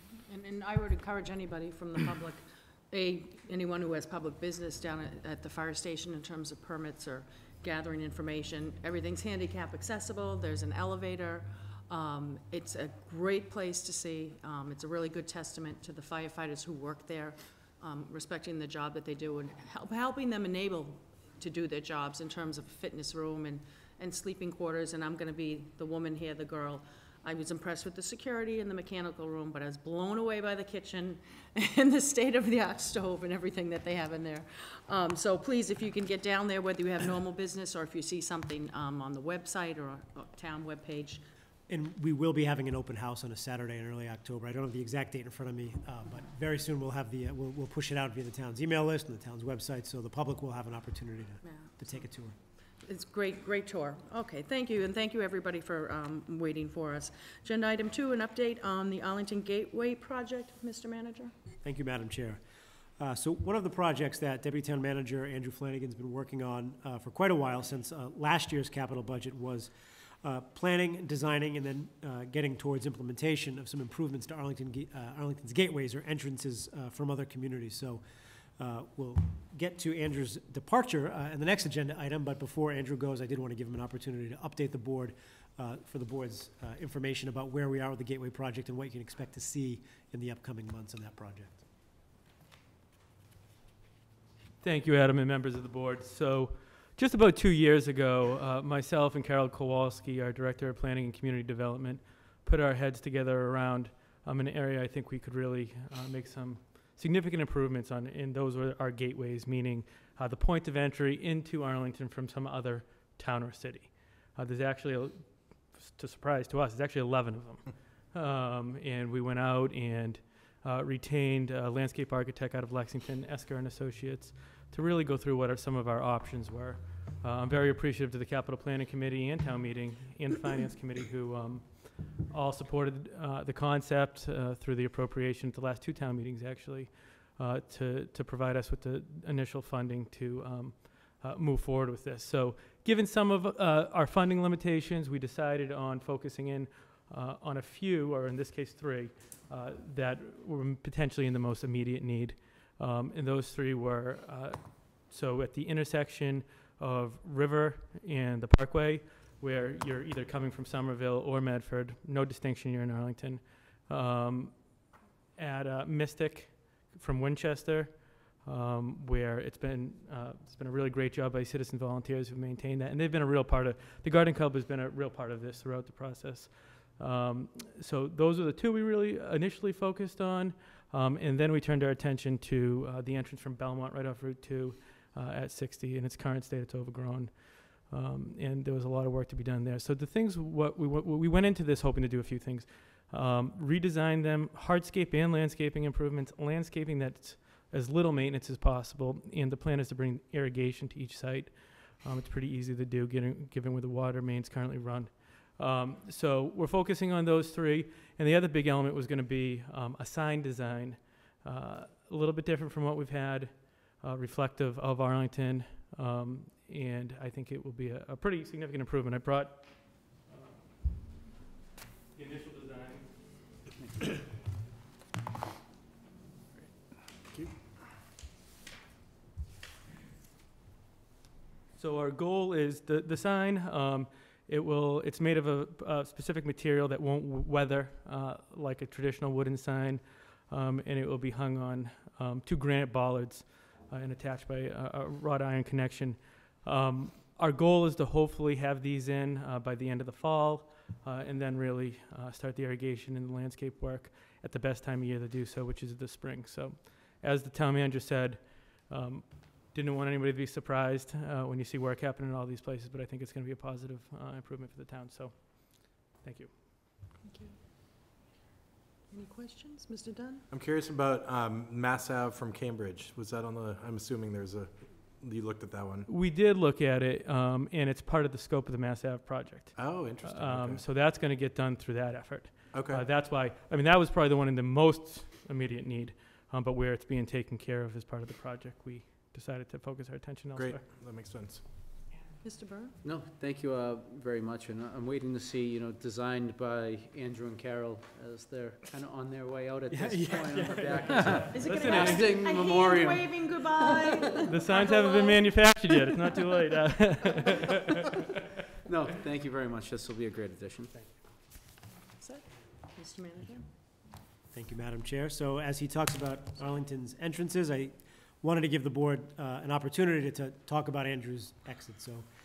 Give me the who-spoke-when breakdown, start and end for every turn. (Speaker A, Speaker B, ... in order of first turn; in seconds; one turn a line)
Speaker A: 0.3-41.2
Speaker B: 41.7-52.4
Speaker A: 51.4-51.7
Speaker A: 52.8-61.3
Speaker B: 61.6-62.4
Speaker B: 63.0-69.7
Speaker B: 70.2-78.0
Speaker B: 78.6-91.6
Speaker C: 94.6-164.8
Speaker C: 165.4-221.2
Speaker C: 222.2-223.6
Speaker C: 231.8-266.6
Speaker A: 267.2-267.6
Speaker A: 269.1-270.4
Speaker D: 270.5-276.1
Speaker C: 276.1-290.8
Speaker D: 279.8-280.8
Speaker D: 282.7-283.1
Speaker D: 290.6-291.6
Speaker A: 292.4-292.9
Speaker E: 293.0-304.0
Speaker B: 299.9-302.0
Speaker A: 301.5-305.4
Speaker C: 301.6-302.3
Speaker C: 304.5-308.0
Speaker E: 308.9-310.9
Speaker A: 312.2-313.6
Speaker B: 314.5-322.3